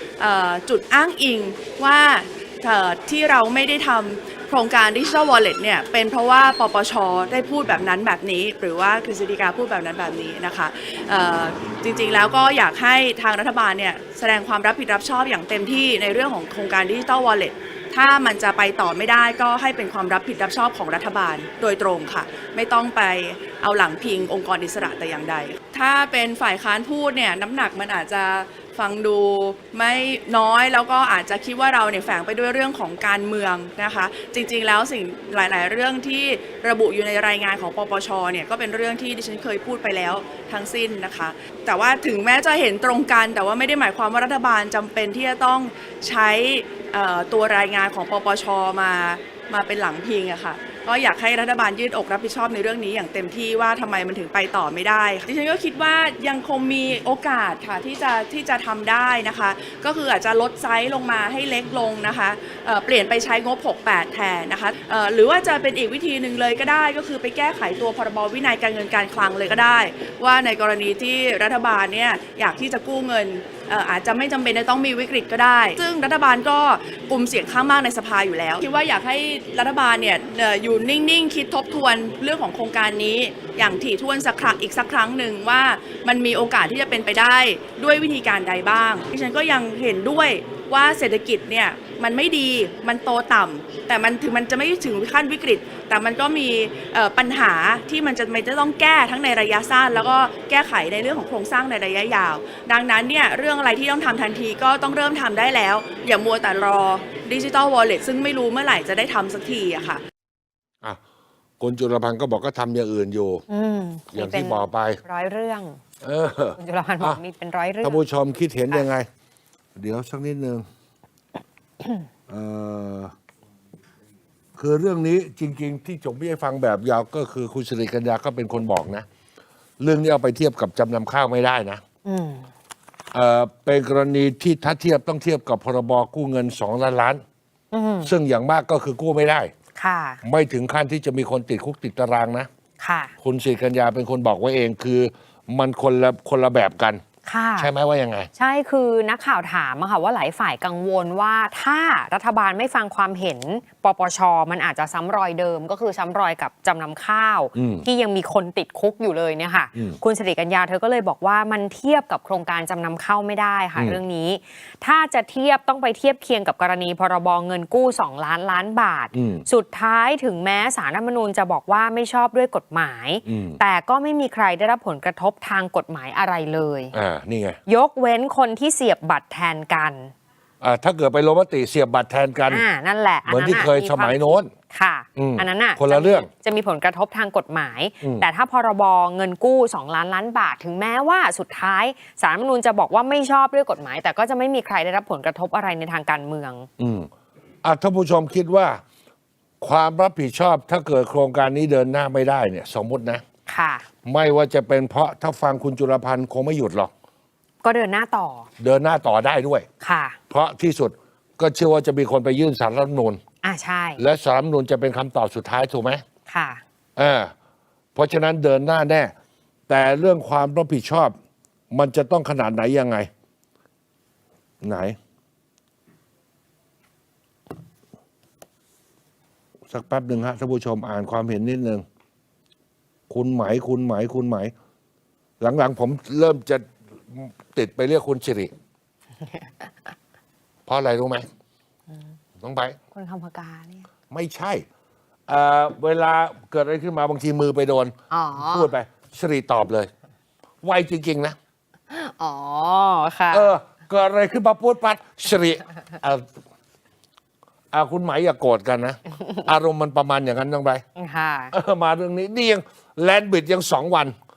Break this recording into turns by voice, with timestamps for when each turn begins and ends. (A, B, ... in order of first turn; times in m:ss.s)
0:00.2-1:50.0 A
1:51.6-1:53.4 B
1:53.5-1:55.8 C
1:54.1-1:55.0 B
1:56.0-1:57.2 B
1:56.6-1:58.0 C
1:57.8-1:59.1 B
1:59.8-2:00.6 B
2:02.3-2:03.1 B
2:04.6-2:09.0 B
2:09.8-2:11.8 B
2:12.0-2:12.5 C
2:13.1-2:17.2 B
2:17.7-2:18.1 C
2:18.0-2:19.5 B
2:19.8-2:20.2 C
2:20.2-2:22.5 B
2:22.8-2:23.1 C
2:23.2-2:27.0 B
2:27.2-2:27.7 C
2:27.6-2:28.3 B
2:28.4-2:56.9 C
2:37.5-2:37.9 B
2:49.1-2:49.4 B
2:53.2-2:53.6 B
2:56.9-2:57.6 B
2:57.6-3:00.1 C
3:00.6-3:02.6 B
3:02.5-3:16.7 C
3:03.3-3:04.5 B
3:05.2-3:06.3 B
3:08.0-3:08.3 B
3:16.8-3:17.1 B
3:17.6-3:18.8 B
3:19.6-3:23.2 B
3:23.5-3:23.8 C
3:24.0-3:26.9 B
3:27.6-3:28.5 C
3:28.6-3:29.6 B
3:29.8-3:30.2 C
3:30.3-3:33.2 B
3:33.4-3:34.0 C
3:34.0-3:36.0 B
3:36.3-3:36.6 C
3:37.0-3:37.3 B
3:38.0-3:39.1 B
3:39.7-3:41.1 B
3:41.7-3:43.1 B
3:44.6-3:45.0 B
3:49.7-3:51.8 B
3:53.1-3:54.5 B
3:55.4-3:58.5 B
3:59.2-3:59.9 C
4:00.7-4:01.2 B
4:01.9-4:02.2 C
4:02.4-4:02.8 B
4:02.9-4:03.9 C
4:04.1-4:04.6 B
4:05.3-4:09.9 B
4:08.1-4:08.7 C
4:10.6-4:11.4 B
4:11.9-4:13.5 C
4:13.3-4:16.2 B
4:17.7-4:20.8 B
4:21.0-4:21.5 C
4:21.5-4:24.1 B